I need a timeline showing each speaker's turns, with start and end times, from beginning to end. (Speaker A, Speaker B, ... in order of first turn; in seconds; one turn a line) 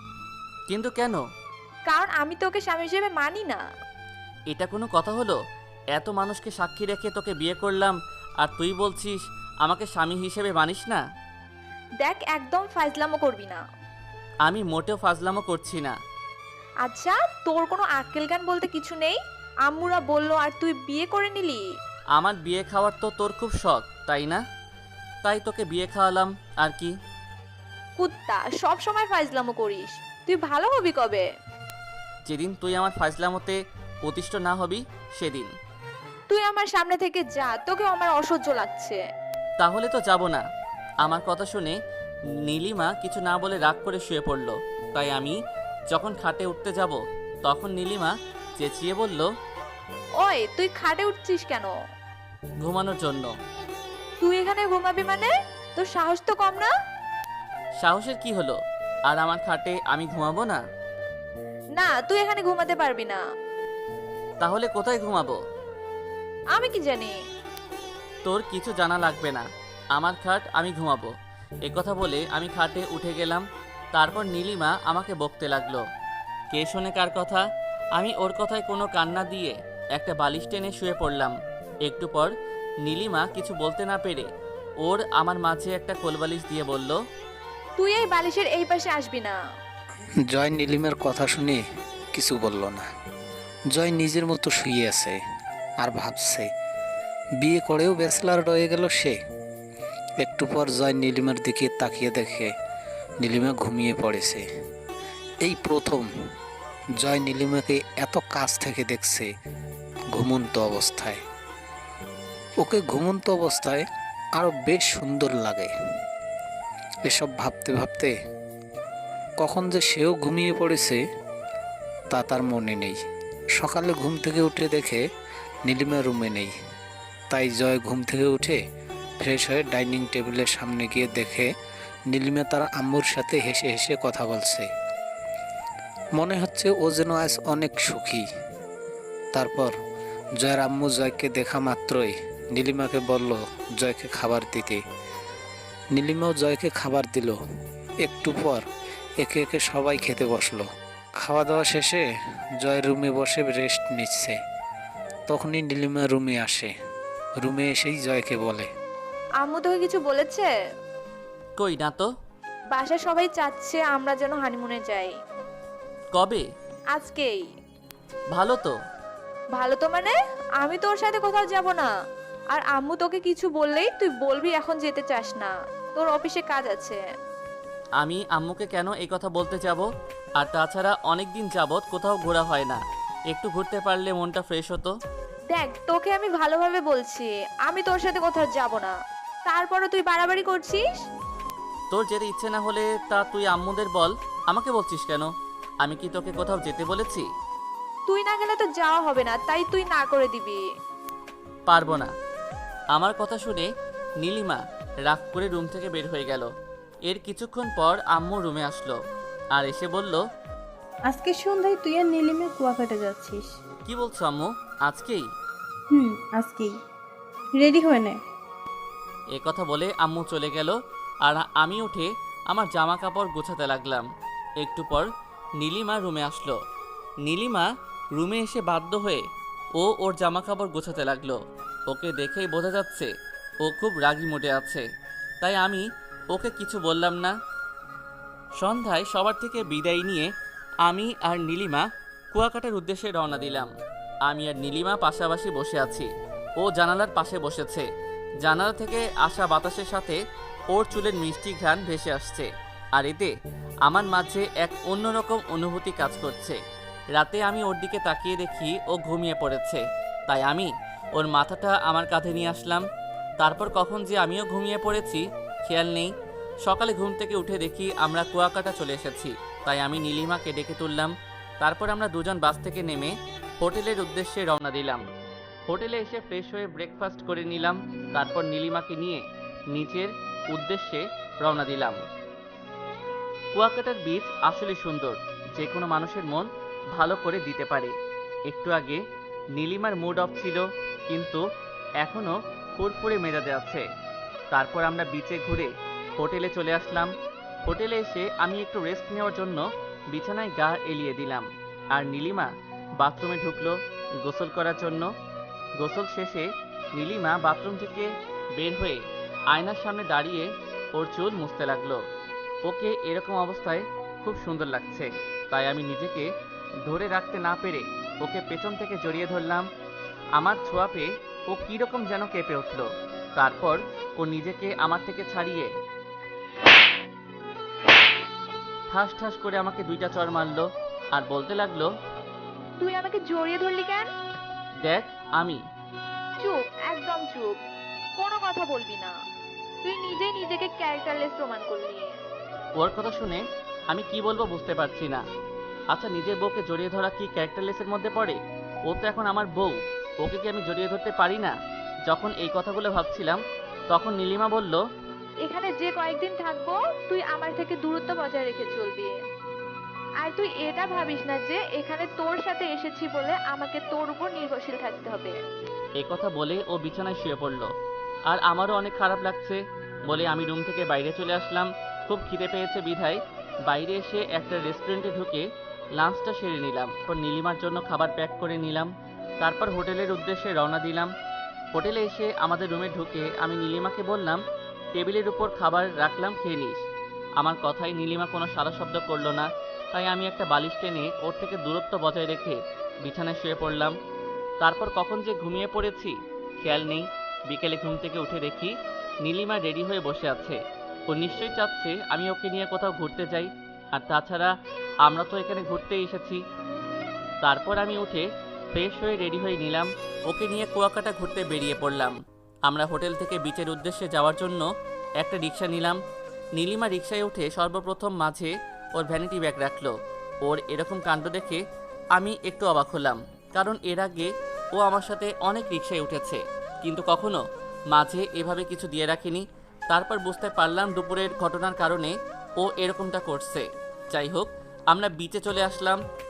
Speaker A: 0.7-1.2
Speaker B: 1.9-3.6
Speaker A: 4.5-5.4
Speaker A: 5.9-11.0
Speaker B: 12.0-13.6
Speaker A: 14.4-15.9
Speaker B: 16.9-21.6
Speaker A: 22.2-24.4
Speaker A: 25.2-26.9
Speaker B: 28.0-31.2
Speaker A: 32.3-35.5
Speaker B: 36.3-39.0
Speaker A: 39.6-40.4
Speaker A: 41.0-41.8
Speaker A: 42.5-45.4
Speaker A: 45.9-49.3
Speaker B: 50.2-51.7
Speaker A: 52.6-53.3
Speaker B: 54.2-56.7
Speaker A: 57.8-58.6
Speaker A: 59.1-60.6
Speaker B: 61.8-63.2
Speaker A: 64.4-65.4
Speaker B: 66.5-67.1
Speaker A: 68.2-71.1
Speaker A: 71.7-75.8
Speaker A: 76.5-77.4
Speaker A: 78.0-81.3
Speaker A: 81.8-82.3
Speaker A: 82.9-84.3
Speaker A: 84.8-87.0
Speaker B: 87.8-89.4
Speaker C: 90.3-91.6
Speaker C: 92.2-92.9
Speaker C: 93.7-95.2
Speaker C: 95.8-96.5
Speaker C: 97.4-99.2
Speaker C: 100.2-102.5
Speaker C: 103.2-104.5
Speaker C: 105.4-106.1
Speaker C: 107.0-109.3
Speaker C: 110.1-111.2
Speaker C: 112.6-113.8
Speaker C: 114.4-115.7
Speaker C: 117.0-118.1
Speaker C: 119.4-121.0
Speaker C: 122.1-123.0
Speaker C: 123.6-125.0
Speaker C: 125.7-126.5
Speaker C: 127.3-128.6
Speaker C: 129.2-131.5
Speaker C: 132.1-134.7
Speaker C: 136.2-138.3
Speaker C: 139.3-139.7
Speaker C: 140.4-144.8
Speaker C: 145.9-147.4
Speaker C: 148.0-148.7
Speaker C: 149.2-150.7
Speaker C: 151.2-152.0
Speaker C: 152.6-154.3
Speaker C: 155.3-156.7
Speaker C: 157.4-158.7
Speaker B: 159.4-160.5
Speaker A: 161.6-162.1
Speaker B: 162.7-165.1
Speaker A: 166.2-166.4
Speaker B: 166.9-167.4
Speaker A: 168.3-168.7
Speaker B: 169.6-171.9
Speaker B: 172.5-177.0
Speaker A: 178.0-179.9
Speaker A: 180.4-182.8
Speaker A: 183.3-184.9
Speaker B: 185.5-188.9
Speaker B: 189.5-190.8
Speaker A: 191.9-195.3
Speaker A: 195.8-197.3
Speaker B: 198.1-200.6
Speaker A: 201.7-202.1
Speaker A: 202.9-203.7
Speaker A: 204.2-206.5
Speaker A: 207.1-209.0
Speaker A: 209.6-210.2
Speaker D: 211.1-213.5
Speaker A: 213.9-215.3
Speaker D: 215.9-216.8
Speaker D: 217.6-218.2
Speaker A: 219.4-224.1
Speaker A: 224.6-225.1
Speaker A: 225.6-226.6
Speaker A: 227.3-229.2
Speaker A: 229.8-231.4
Speaker A: 231.9-233.1
Speaker A: 233.6-234.8
Speaker A: 235.4-237.3
Speaker A: 238.6-240.3
Speaker A: 240.9-243.7
Speaker A: 244.3-247.9
Speaker A: 248.4-250.2
Speaker A: 250.7-253.3
Speaker A: 253.9-256.6
Speaker A: 257.2-262.9
Speaker A: 263.4-266.1
Speaker A: 266.7-275.0
Speaker A: 275.7-282.0
Speaker A: 283.5-287.9
Speaker A: 288.5-289.0
Speaker A: 289.6-291.4
Speaker A: 292.0-293.9
Speaker A: 294.5-297.1
Speaker A: 297.6-305.1
Speaker A: 305.8-309.0
Speaker A: 309.5-312.0
Speaker A: 312.7-316.3
Speaker A: 316.9-319.7
Speaker A: 320.4-325.7
Speaker A: 328.9-331.9
Speaker B: 332.8-334.1
Speaker A: 334.8-335.6
Speaker B: 336.4-337.6
Speaker B: 338.2-339.1
Speaker B: 339.8-342.1
Speaker A: 342.8-345.2
Speaker A: 345.9-351.5
Speaker A: 352.1-353.4
Speaker A: 353.9-354.8
Speaker B: 355.4-359.1
Speaker B: 360.2-365.4
Speaker A: 366.0-367.7
Speaker A: 368.3-375.4
Speaker A: 376.0-381.1
Speaker A: 381.7-384.4
Speaker A: 385.0-386.8
Speaker A: 387.4-393.9
Speaker A: 394.6-398.7
Speaker A: 399.2-400.6
Speaker A: 401.1-404.5
Speaker A: 405.1-406.4
Speaker A: 407.4-414.7
Speaker A: 415.2-416.0
Speaker A: 416.6-421.6
Speaker A: 422.2-427.4
Speaker A: 427.9-436.0